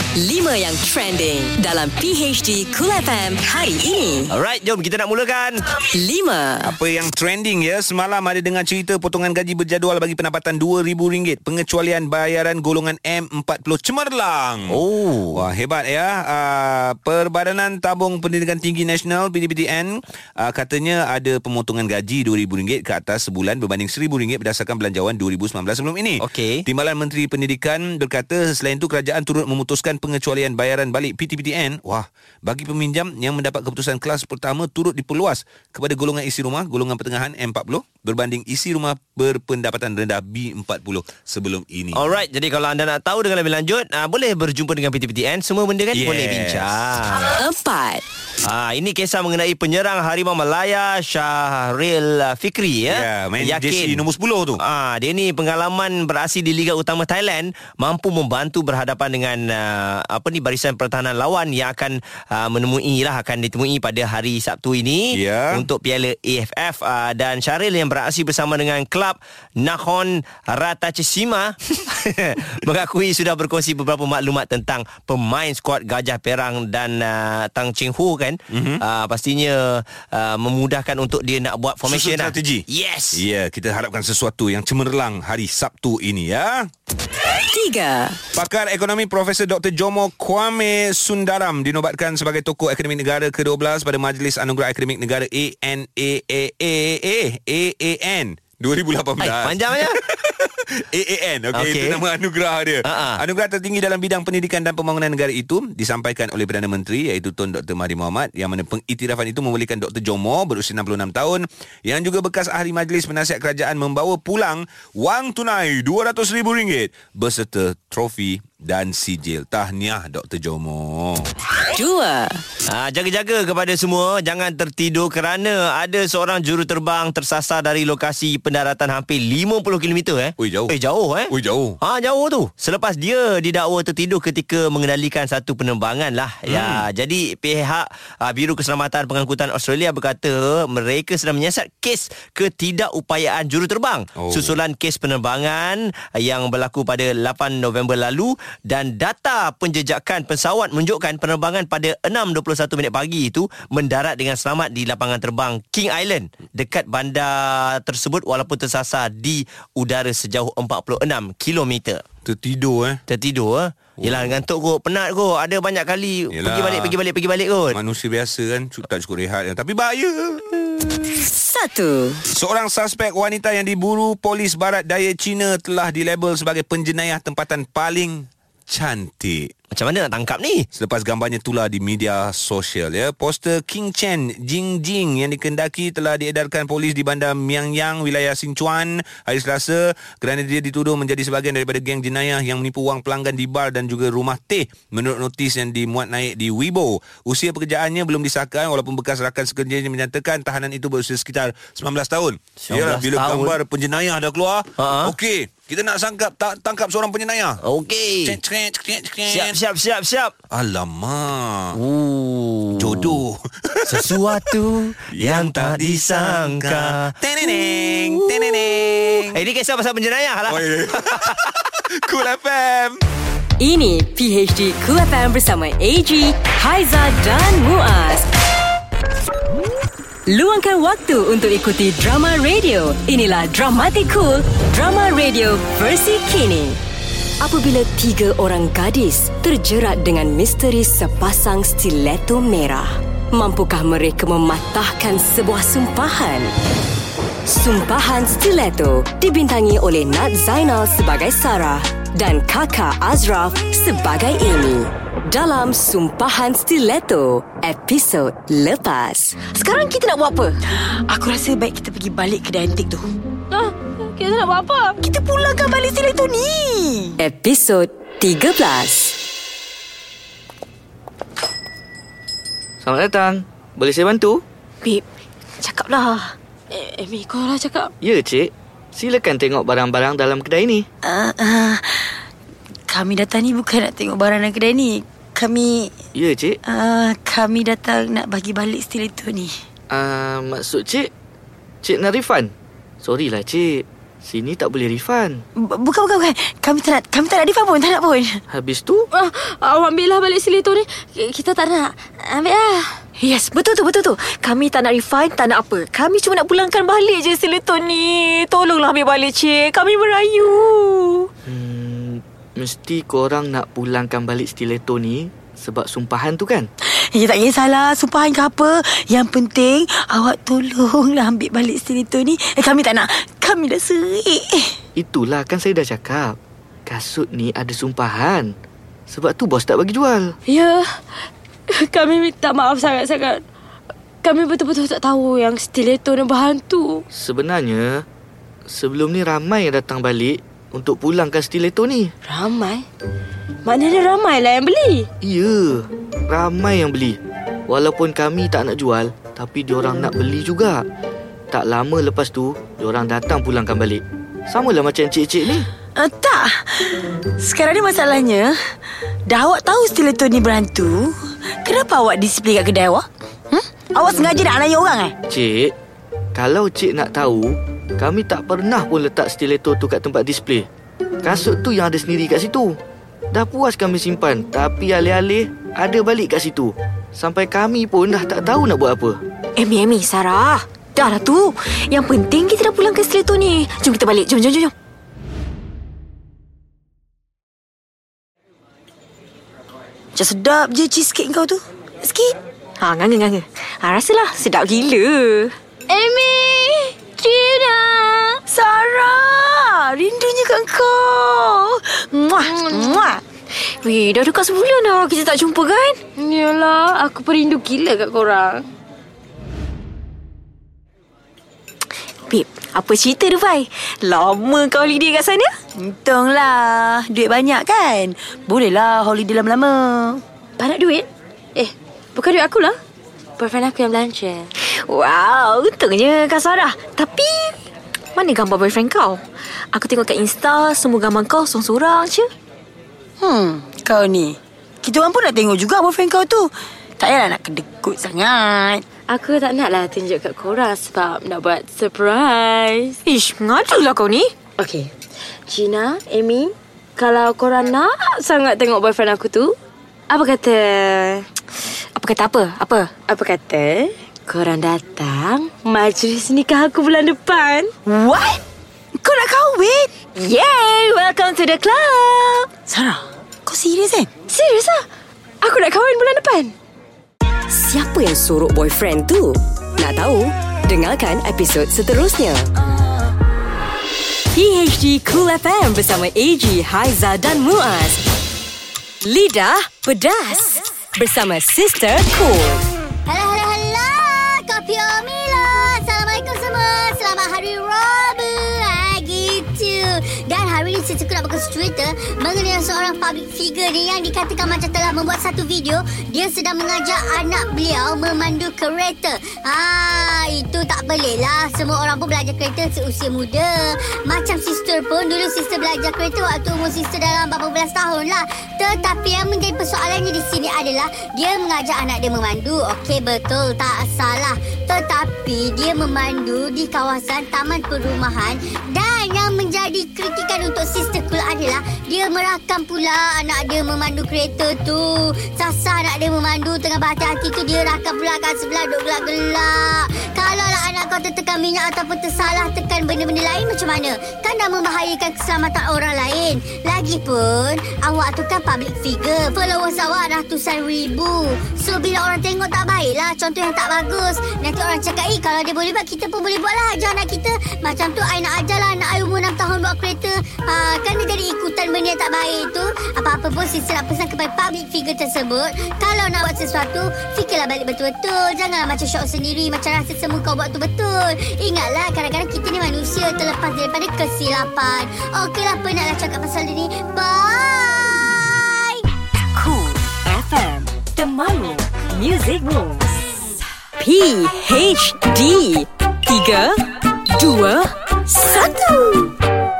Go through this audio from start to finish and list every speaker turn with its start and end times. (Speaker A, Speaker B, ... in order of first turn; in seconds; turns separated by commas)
Speaker A: 0.1-4.3, Speaker B: 4.3-5.6, Speaker A: 5.7-6.7, Speaker C: 6.6-14.8, Speaker B: 14.7-15.4, Speaker C: 15.3-42.2, Speaker B: 26.2-26.6, Speaker B: 41.9-47.3, Speaker C: 45.9-47.0, Speaker A: 47.2-48.0, Speaker B: 48.4-54.0, Speaker C: 52.9-54.6, Speaker B: 54.6-83.2, Speaker C: 65.1-65.7, Speaker C: 78.5-78.8, Speaker C: 81.8-86.7, Speaker A: 87.3-88.2, Speaker C: 88.3-121.3, Speaker B: 99.2-100.0, Speaker B: 101.5-102.0, Speaker B: 102.8-103.2, Speaker A: 121.7-122.4, Speaker B: 122.7-162.0, Speaker C: 130.4-130.7, Speaker C: 131.3-131.8, Speaker C: 136.5-136.9, Speaker C: 144.2-144.6, Speaker C: 162.2-163.0, Speaker B: 163.1-167.8, Speaker C: 164.0-164.4, Speaker C: 166.3-167.0, Speaker C: 167.7-171.2, Speaker A: 171.1-172.2, Speaker C: 172.3-179.5, Speaker B: 179.7-180.7, Speaker C: 180.7-207.6, Speaker B: 202.6-203.6, Speaker B: 204.8-205.1, Speaker B: 207.6-208.4, Speaker C: 208.2-209.6, Speaker B: 209.3-210.3, Speaker C: 210.5-211.8, Speaker B: 211.7-213.2, Speaker C: 212.7-219.4, Speaker B: 213.8-217.1, Speaker B: 217.7-221.4, Speaker C: 220.5-223.0, Speaker A: 223.6-228.3, Speaker A: 230.3-236.8, Speaker A: 237.4-246.5, Speaker A: 247.4-259.4, Speaker D: 259.4-263.1, Speaker E: 263.5-264.9, Speaker D: 265.0-267.1, Speaker A: 267.2-269.2, Speaker F: 272.8-274.4, Speaker D: 275.6-276.3, Speaker E: 276.7-277.9, Speaker F: 278.0-280.9, Speaker D: 281.0-282.2, Speaker D: 282.9-285.9, Speaker F: 286.1-286.6, Speaker D: 286.6-289.5, Speaker F: 289.9-291.1, Speaker F: 291.8-295.4, Speaker D: 295.6-298.4, Speaker F: 298.5-299.1, Speaker E: 299.1-303.0, Speaker D: 303.2-311.3, Speaker F: 311.4-316.7, Speaker D: 316.9-324.8, Speaker F: 324.9-326.4, Speaker F: 326.9-328.5, Speaker F: 329.1-330.3, Speaker E: 330.4-331.0, Speaker E: 331.7-333.4, Speaker E: 334.2-337.0, Speaker F: 337.1-338.0, Speaker F: 338.6-342.1, Speaker E: 342.2-342.9, Speaker E: 343.6-345.1, Speaker F: 345.2-350.8, Speaker F: 351.5-355.7, Speaker D: 355.9-358.6, Speaker D: 359.3-365.1, Speaker F: 365.3-365.7, Speaker F: 366.3-370.7, Speaker F: 371.2-372.8, Speaker F: 373.3-379.2, Speaker D: 379.6-384.7, Speaker D: 390.1-395.5, Speaker E: 395.9-398.4, Speaker D: 398.4-403.2, Speaker E: 402.4-403.1, Speaker D: 403.8-406.0, Speaker E: 406.1-408.6, Speaker D: 412.3-420.2, Speaker E: 420.6-422.8, Speaker E: 423.4-424.5, Speaker D: 424.7-427.5, Speaker D: 428.1-429.2, Speaker D: 429.7-432.3, Speaker D: 433.2-438.8, Speaker E: 439.1-443.0, Speaker D: 443.1-444.3, Speaker E: 444.6-444.9, Speaker E: 445.5-449.6, Speaker E: 450.1-451.2, Speaker D: 451.9-452.9, Speaker E: 453.1-457.7, Speaker D: 457.9-458.4, Speaker D: 458.9-464.1, Speaker E: 464.3-464.9, Speaker E: 465.4-466.5, Speaker A: 467.5-472.5, Speaker A: 474.3-478.0, Speaker A: 479.0-482.6, Speaker G: 483.1-568.9, Speaker A: 569.3-573.0, Speaker A: 573.8-579.1